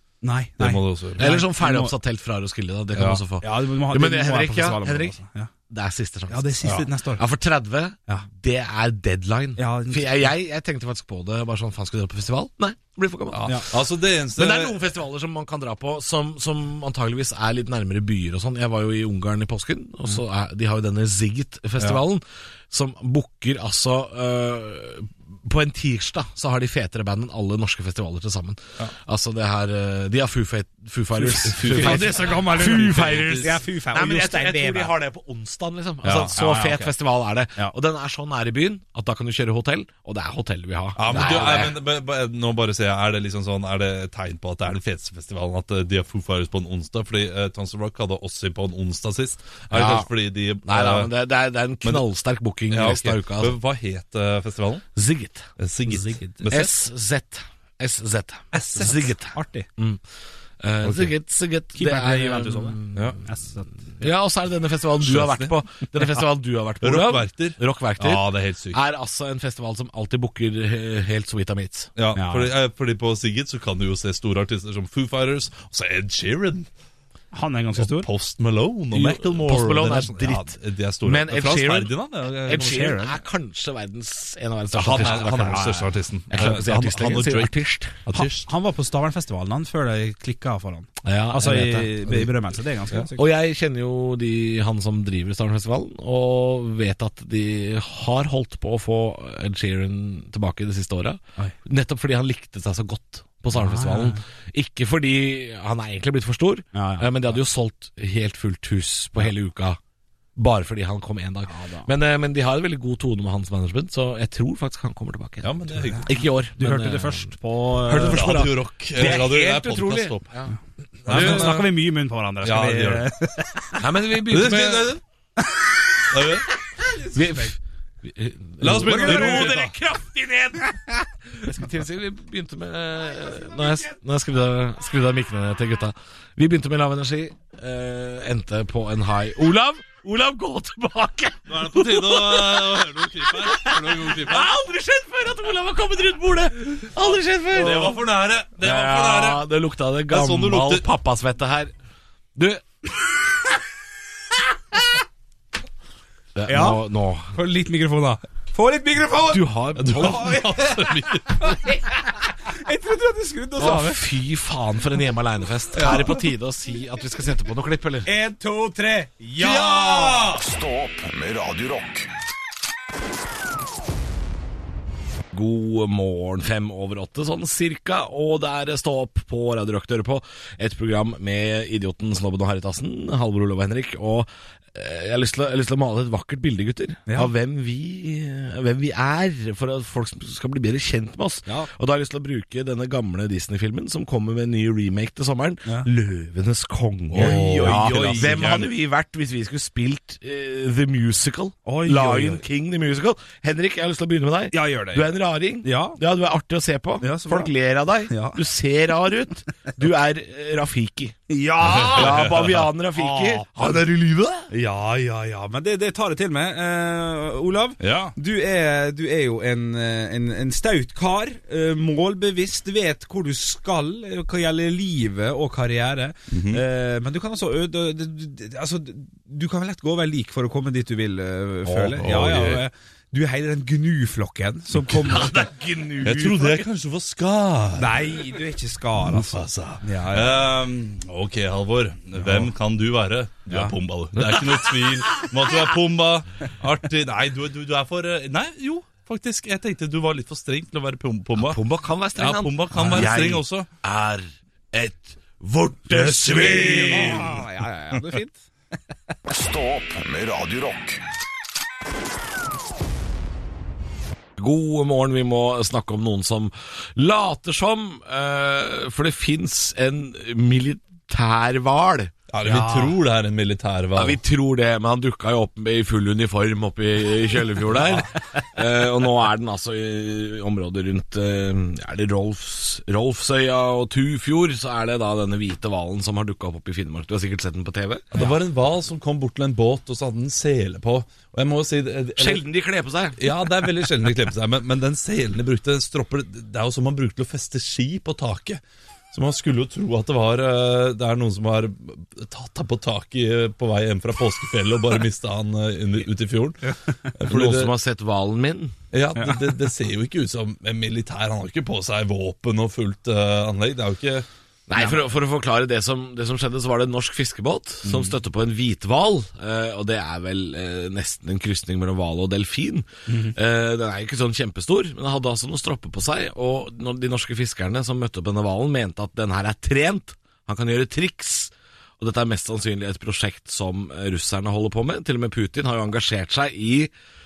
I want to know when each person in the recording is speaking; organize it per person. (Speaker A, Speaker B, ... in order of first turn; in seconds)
Speaker A: 0.2-1.9, 3.4-5.5, 6.3-7.2, 9.6-10.3, 31.4-34.9, 36.0-37.0, 55.9-56.4, 58.5-59.7, 61.7-63.7, 72.1-72.5, 77.3-78.1, 82.7-82.9, 88.1-93.3, 103.5-104.2, 106.7-107.1, 111.5-111.9, 116.6-118.5, 121.1-123.8, 126.8-127.5, 128.7-129.6, 156.5-156.8, 157.3-159.4, 159.9-160.7, 161.4-164.0, 168.0-170.3, 197.1-198.5, 201.7-202.4, 204.5-206.0, 207.0-207.5, 208.1-208.4, 211.3-212.3, 212.9-213.5, 214.5-235.5, 237.8-240.4, 242.2-242.5, 243.5-243.7, 252.8-253.0, 256.3-258.4, 272.4-272.9, 323.1-323.3
Speaker B: 0.6-1.2, 3.0-3.2, 13.3-14.8, 31.3-33.5, 36.0-36.3, 41.0-51.1, 52.7-54.9, 55.6-56.7, 58.5-58.9, 60.8-61.1, 65.0-65.5, 66.8-68.8, 72.0-76.7, 77.8-83.1, 84.7-88.5, 115.4-116.1, 117.9-120.3, 121.0-121.7, 122.4-123.1, 124.2-125.0, 126.1-126.5, 128.6-129.7, 141.5-144.5, 147.5-149.5, 150.1-150.8, 159.8-161.6, 165.7-166.2, 169.4-170.4, 197.1-198.7, 211.8-212.6, 217.8-218.1, 226.3-226.6, 231.7-232.6, 236.0-238.0, 239.0-251.6, 252.2-253.7, 255.9-257.4, 272.3-274.2, 288.1-292.4, 293.2-298.6, 299.1-307.7, 308.9-314.2
Speaker C: 1.2-5.2, 5.7-13.6, 14.3-41.8, 49.7-50.1, 50.6-53.5, 54.9-55.5, 56.5-60.0, 60.6-63.2, 64.0-71.9, 78.9-88.0, 91.0-92.3, 93.1-109.8, 110.3-120.5, 121.0-121.6, 123.8-124.9, 127.1-148.0, 148.6-151.7, 152.3-152.9, 156.3-157.4, 159.3-160.4, 163.6-168.1, 175.3-214.5, 235.0-236.7, 244.2-244.7, 251.3-257.4, 264.4-272.1, 273.9-288.2, 292.2-293.2, 307.3-308.7, 314.7-336.9
Speaker D: 170.4-172.1, 259.3-261.0